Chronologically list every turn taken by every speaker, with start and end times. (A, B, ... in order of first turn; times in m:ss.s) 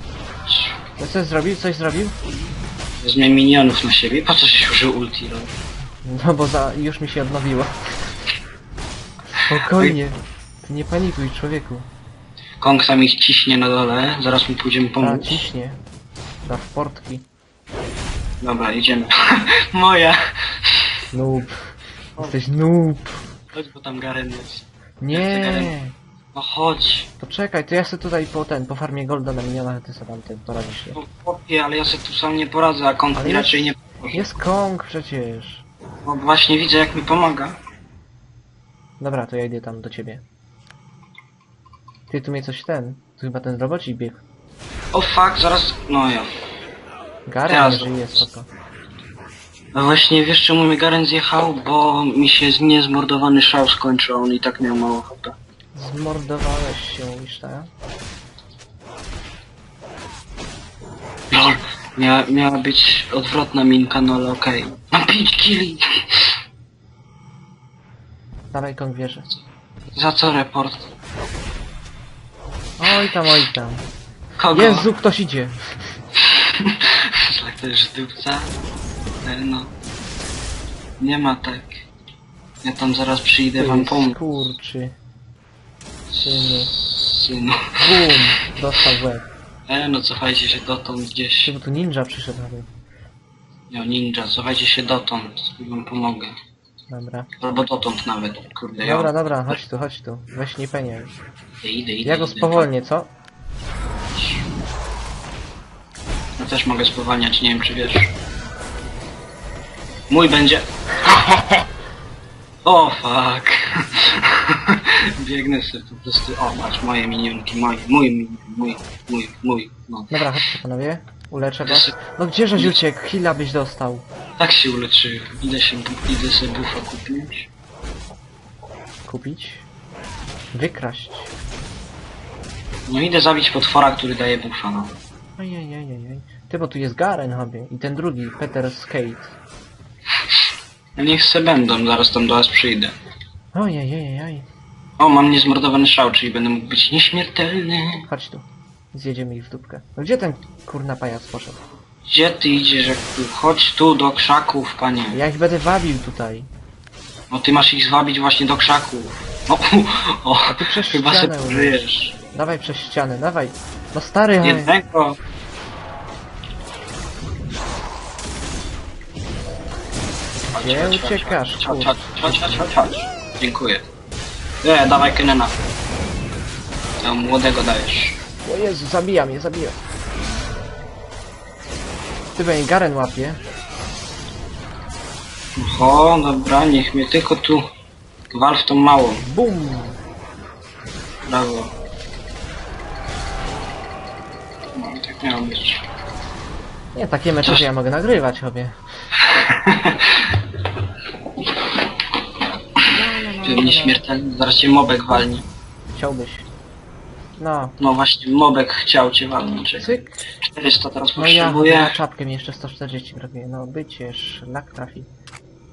0:00.5-0:00.8 A
0:01.0-0:02.2 B
0:03.0-0:05.5 A
0:06.0-0:07.7 B
0:09.3-0:11.9 B
0:12.6-0:15.5 A
0:15.0-0:15.8 B
0:16.4-0:17.3 B
0:18.4-0:19.1 A
0:19.7-0:20.2 A
0:21.1-0:23.2 B
0:23.5-0:25.7 A
0:25.0-0:26.0 B
0:26.3-0:27.1 A
0:27.2-0:31.0 B
0:30.9-0:34.3 A
0:33.1-0:35.6 B
0:36.0-0:37.6 A
0:39.0-0:40.2 B
0:42.1-0:44.2 B
0:44.9-0:46.3 A
0:47.3-0:48.5 B
0:47.5-0:48.2 A
0:49.7-0:55.4 A
0:55.7-0:57.7 B
1:01.3-1:05.8 A
1:08.5-1:09.3 B
1:09.9-1:10.9 A
1:12.8-1:13.9 B
1:14.4-1:14.9 A
1:14.5-1:15.9 B
1:16.6-1:18.6 A
1:19.2-1:19.7 A
1:21.0-1:21.8 A
1:22.6-1:24.2 A
1:23.6-1:25.0 B
1:26.1-1:28.1 A
1:26.2-1:26.7 B
1:27.8-1:29.3 B
1:29.7-1:31.6 A
1:31.4-1:32.7 B
1:33.7-1:36.4 A
1:36.9-1:37.3 B
1:37.4-1:39.6 A
1:38.8-1:41.1 B
1:41.6-1:42.7 A
1:42.0-1:43.1 B
1:44.2-1:44.4 A
1:46.4-1:48.1 A
1:50.1-1:51.5 A
1:52.6-2:00.2 A
2:00.1-2:04.0 B
2:01.6-2:02.0 A
2:04.4-2:07.5 A
2:09.0-2:09.7 B
2:10.5-2:11.3 B
2:12.9-2:15.0 A
2:15.4-2:19.4 B
2:21.0-2:22.9 A
2:23.5-2:24.5 B
2:25.0-2:28.1 A
2:28.1-2:31.6 B
2:32.0-2:35.2 A
2:35.1-2:36.5 B
2:37.3-2:42.2 A
2:40.4-2:41.8 B
2:42.3-2:44.7 B
2:44.4-2:45.2 A
2:50.4-2:52.7 B
2:50.5-2:53.8 A
2:54.6-2:55.6 A
2:57.0-2:58.2 A
2:58.4-2:59.8 B
3:02.4-3:03.4 B
3:05.6-3:07.6 A
3:08.3-3:09.2 A
3:09.2-3:10.0 B
3:11.2-3:11.7 A
3:14.8-3:15.8 A
3:16.9-3:18.8 B
3:19.2-3:20.3 A
3:22.9-3:24.0 B
3:23.4-3:25.4 A
3:25.9-3:26.5 B
3:27.4-3:27.8 B
3:27.8-3:32.0 A
3:29.8-3:30.2 B
3:31.2-3:35.1 B